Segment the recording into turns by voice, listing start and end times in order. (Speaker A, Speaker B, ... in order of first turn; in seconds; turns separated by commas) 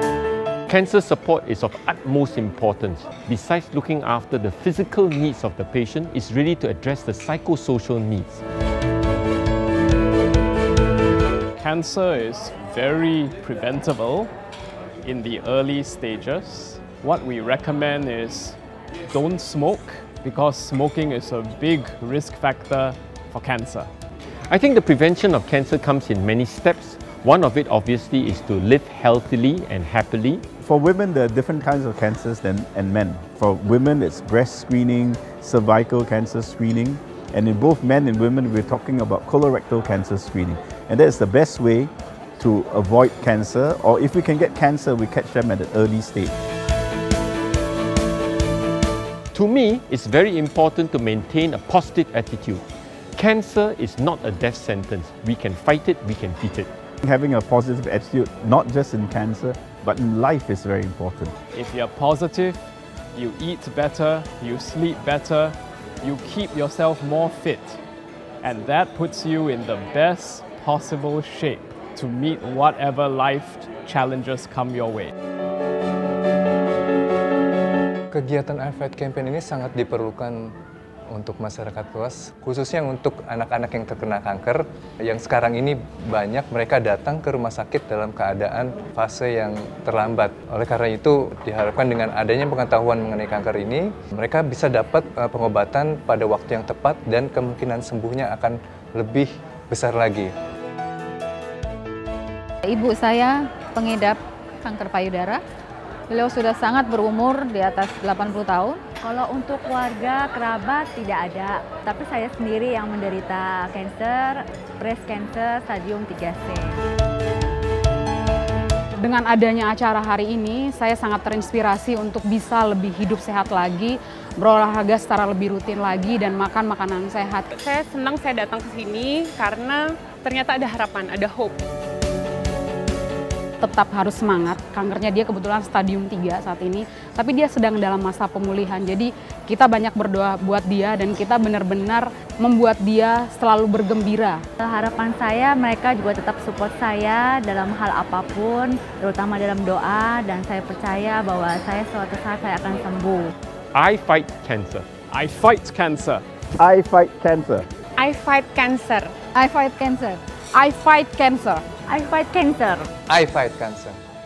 Speaker A: 0.7-8.4, Speaker B: 11.6-14.3, Speaker B: 15.0-18.6, Speaker B: 19.1-23.9, Speaker A: 24.5-30.4, Speaker C: 30.6-46.4, Speaker A: 49.3-52.6, Speaker A: 53.2-56.7, Speaker C: 57.0-61.3, Speaker B: 61.5-62.6, Speaker B: 63.1-67.8, Speaker B: 68.4-75.1, Speaker D: 78.1-80.5, Speaker D: 81.1-100.3, Speaker E: 107.7-108.8, Speaker F: 109.0-116.8, Speaker G: 119.0-127.5, Speaker H: 127.5-131.6, Speaker G: 133.6-144.4, Speaker F: 144.6-153.3, Speaker A: 153.7-154.9, Speaker B: 155.1-156.2, Speaker C: 156.6-157.7, Speaker H: 158.0-159.1, Speaker E: 159.4-160.2, Speaker G: 160.6-161.7, Speaker F: 161.9-162.9, Speaker D: 163.1-164.0